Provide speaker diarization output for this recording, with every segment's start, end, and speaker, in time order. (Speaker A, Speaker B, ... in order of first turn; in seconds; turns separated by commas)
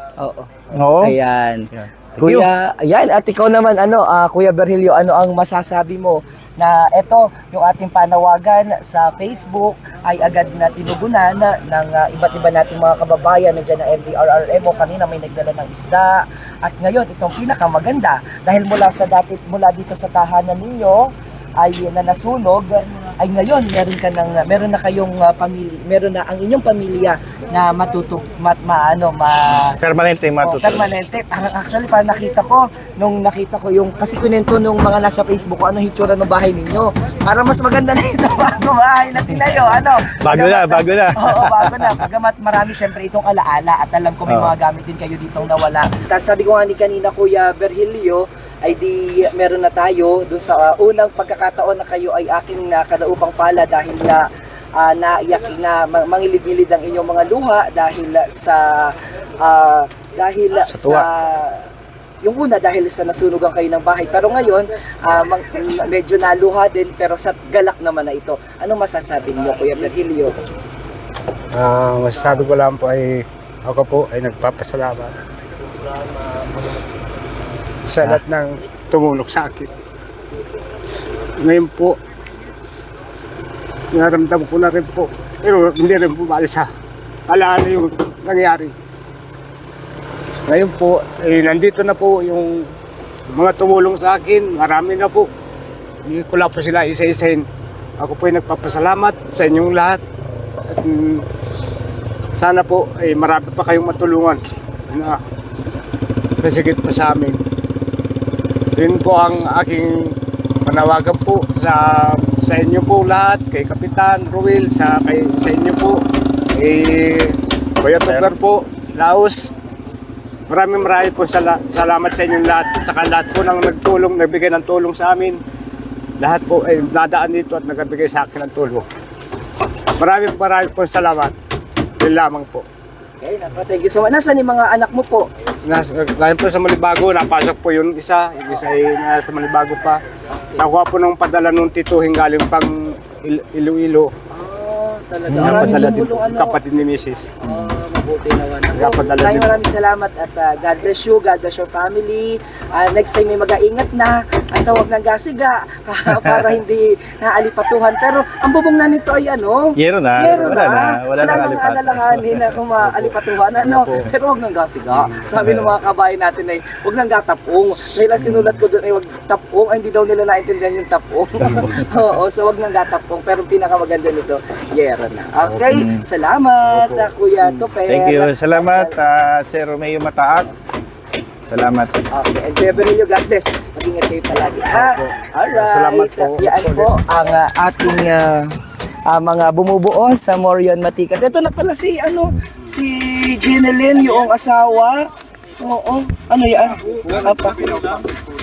Speaker A: 0.2-0.5, Speaker B: 0.7-1.1, Speaker A: 1.0-29.8, Speaker B: 1.7-2.5, Speaker B: 29.8-30.8, Speaker A: 30.4-54.2, Speaker B: 40.2-41.9, Speaker B: 44.3-44.5, Speaker A: 54.8-61.6, Speaker B: 60.6-61.1, Speaker A: 62.2-70.4, Speaker C: 71.5-75.2, Speaker C: 76.4-76.8, Speaker C: 77.9-79.7, Speaker C: 81.4-82.0, Speaker C: 83.9-86.7, Speaker C: 87.3-88.8, Speaker C: 90.5-92.7, Speaker C: 93.3-95.3, Speaker C: 96.1-97.5, Speaker C: 98.0-100.0, Speaker C: 100.7-101.3, Speaker C: 102.4-105.2, Speaker C: 106.4-107.4, Speaker C: 108.8-116.0, Speaker C: 116.6-119.5, Speaker B: 118.0-118.3, Speaker C: 120.5-125.4, Speaker C: 126.2-128.9, Speaker C: 130.0-131.3, Speaker C: 132.0-132.7, Speaker A: 133.2-135.3, Speaker C: 135.6-140.0, Speaker C: 140.6-144.1, Speaker A: 144.3-146.6, Speaker B: 145.3-146.1, Speaker C: 145.4-147.3, Speaker A: 147.4-179.0, Speaker B: 147.4-147.8, Speaker C: 148.8-149.6, Speaker B: 159.8-162.4, Speaker B: 165.4-165.7, Speaker B: 175.7-176.0, Speaker C: 176.7-177.1, Speaker B: 177.9-180.5, Speaker B: 181.5-181.9, Speaker A: 182.1-188.5, Speaker C: 184.7-186.9, Speaker A: 189.1-195.1, Speaker A: 195.6-197.7, Speaker B: 196.6-198.1